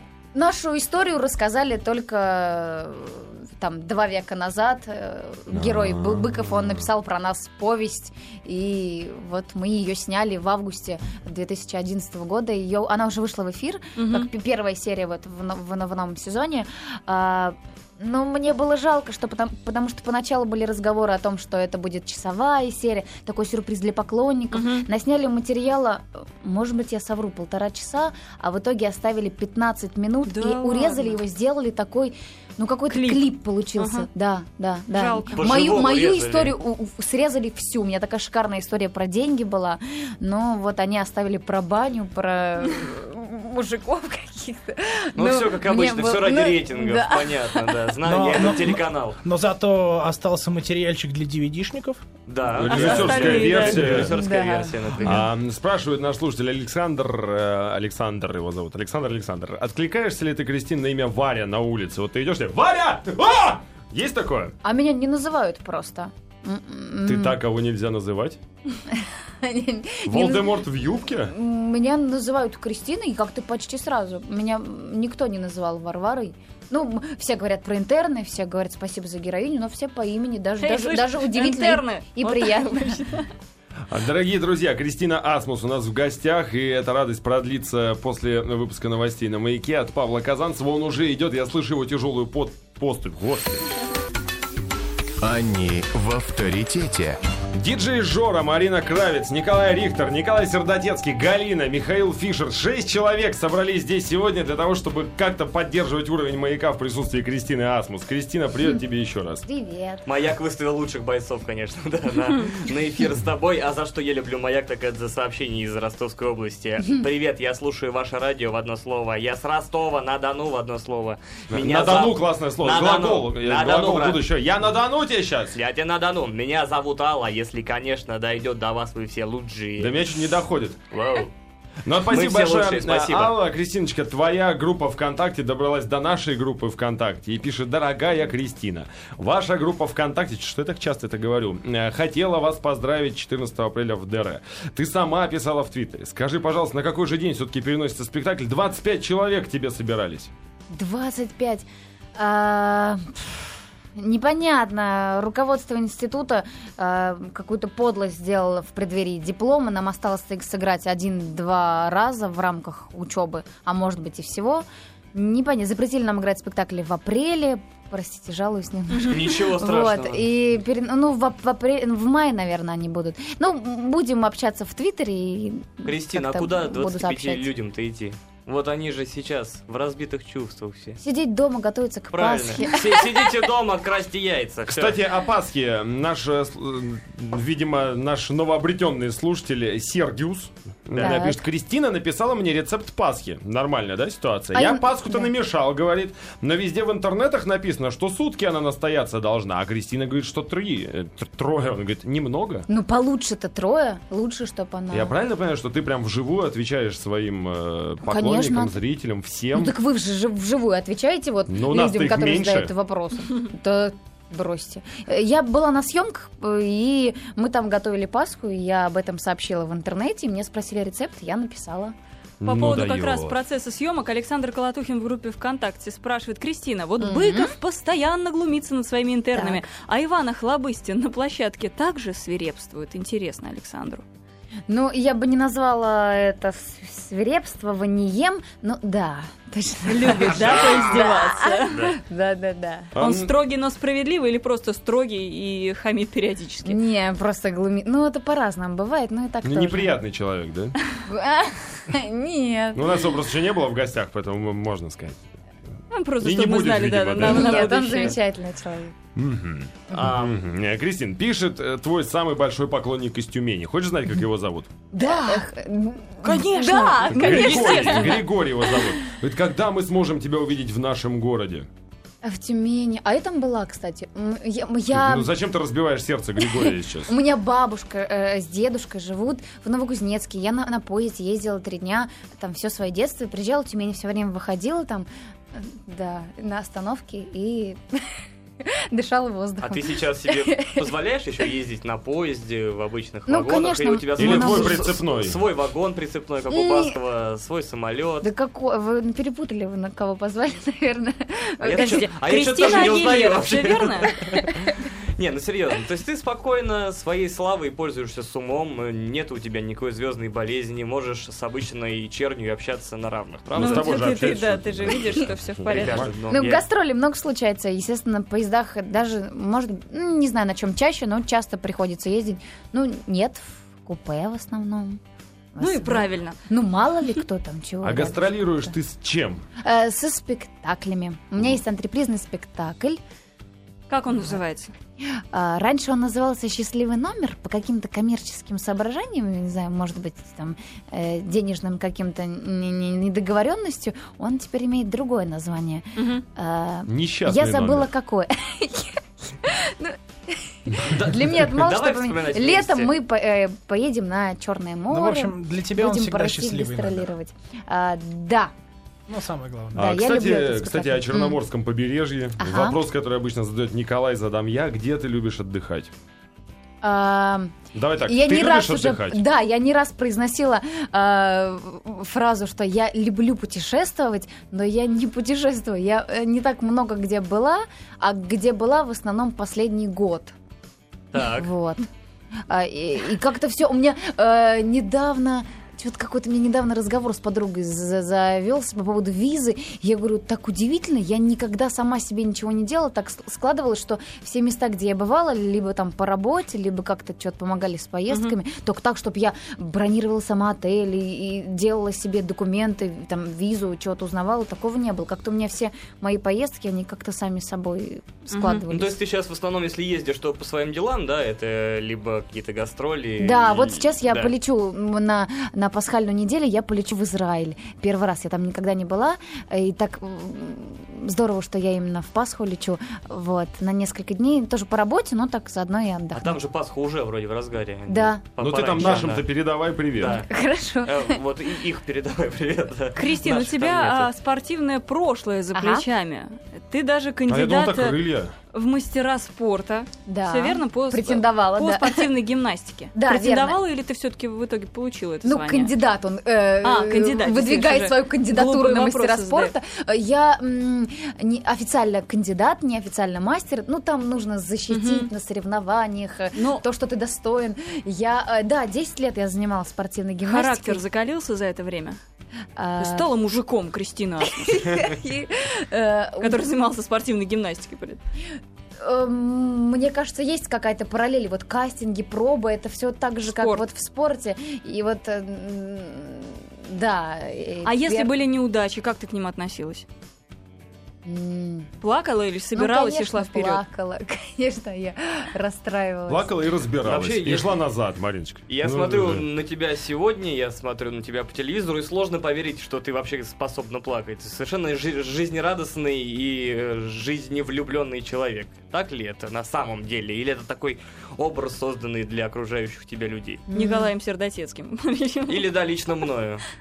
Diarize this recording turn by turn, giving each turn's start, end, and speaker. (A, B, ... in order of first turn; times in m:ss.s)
0:00.3-0:47.9 A
0:05.5-0:06.7 B
0:14.0-0:14.3 C
0:24.5-0:24.9 C
0:30.3-0:31.2 C
0:32.9-0:34.1 C
0:34.9-0:35.8 C
0:35.3-0:36.6 D
0:45.2-0:49.2 D
0:48.0-0:52.0 E
0:52.3-0:55.3 D
0:52.5-0:54.1 B
0:52.7-0:54.0 C
0:53.9-0:55.2 A
0:55.0-1:04.6 B
1:04.6-1:07.4 A
1:07.0-1:08.4 B
1:08.9-1:10.7 A
1:10.0-1:11.3 B
1:11.2-1:23.0 A
1:20.6-1:23.3 C
1:23.9-1:33.6 B
1:35.2-1:37.2 F
1:37.5-1:49.4 B
1:49.4-1:50.1 A
1:50.1-2:04.3 D
2:01.5-2:05.6 B
2:05.5-2:10.0 D
2:09.8-2:10.8 B
2:10.9-2:11.3 D
2:11.8-2:30.3 B
2:12.1-2:13.4 D
2:30.7-2:57.5 A
2:48.9-2:49.2 C
2:49.0-2:50.2 D
2:55.8-3:01.0 D
3:01.0-3:03.3 A
3:02.1-3:05.0 D
3:04.7-3:22.7 B
3:11.0-3:11.4 A
3:14.5-3:15.3 A
3:22.7-3:25.1 A
3:24.9-3:29.8 B
3:28.0-3:28.8 A
3:29.5-3:41.9 A
3:31.5-3:32.7 B
3:42.4-3:43.4 B
3:42.4-3:54.0 C
3:47.0-3:47.6 A
3:49.3-3:49.7 A
3:54.7-4:03.0 A
3:59.9-4:01.9 C
4:00.5-4:00.7 D
4:03.0-4:03.3 B
4:03.0-4:06.8 C
4:06.6-4:10.0 A
4:09.4-4:10.8 B
4:11.0-4:13.1 A
4:12.7-4:15.2 B
4:15.9-4:18.2 C
4:16.2-4:17.6 B
4:17.2-4:19.0 A
4:19.2-4:24.7 B
4:19.9-4:20.4 D
4:24.9-4:28.8 A
4:25.0-4:25.5 C
4:26.2-4:28.3 C
4:27.1-4:31.7 B
4:32.2-4:35.3 A
4:34.9-4:37.1 B
4:36.5-4:50.8 A
4:49.6-4:58.3 D
4:53.3-4:55.0 A
4:54.2-4:55.4 B
4:56.5-4:57.0 A
4:58.2-5:02.1 A
5:01.6-5:14.2 D
5:01.7-5:04.2 C
5:13.6-5:16.1 C
5:13.6-5:16.1 B
5:15.6-5:16.6 D
5:16.3-5:25.0 A
5:25.6-5:28.7 A
5:25.6-5:26.4 C
5:27.8-5:29.4 B
5:29.6-5:33.0 A
5:33.9-5:34.7 C
5:35.1-5:58.5 A
5:46.0-5:46.2 C
5:46.9-5:47.9 B
5:50.9-5:52.9 D
5:54.9-5:57.1 E
5:59.1-5:59.8 E
5:59.8-6:01.4 A
5:59.8-6:05.9 B
6:02.4-6:02.8 A
6:06.8-6:20.4 A
6:07.7-6:09.2 B
6:21.1-6:21.5 D
6:21.2-6:21.9 A
6:22.5-6:49.0 A
6:38.1-6:38.4 C
6:48.3-6:48.6 C
6:48.7-6:54.3 D
6:53.2-7:06.4 A
7:06.2-7:09.3 D
7:07.9-7:08.2 A
7:08.4-7:10.2 B
7:10.0-7:10.3 D
7:10.3-7:11.2 A
7:10.8-7:14.1 D
7:13.0-7:18.0 C
7:15.5-7:15.9 A
7:17.3-7:18.3 B
7:18.5-7:25.7 C
7:20.1-7:22.1 A
7:22.9-7:23.6 A
7:25.2-7:40.8 A
7:26.6-7:29.5 C
7:34.7-7:35.1 C
7:36.4-7:36.6 C
7:40.2-7:42.0 C
7:42.6-7:43.1 A
7:42.8-7:44.8 C
7:44.2-7:46.4 A
7:46.2-7:48.0 C
7:48.8-7:58.1 A
7:53.2-7:53.6 C
7:57.6-7:59.8 C
8:01.0-8:01.7 A
8:01.8-8:03.6 C
8:02.6-8:06.3 A
8:06.1-8:09.3 B
8:06.8-8:07.5 D
8:08.5-8:23.4 D
8:23.5-8:23.9 A
8:23.5-8:25.5 C
8:25.3-8:26.4 D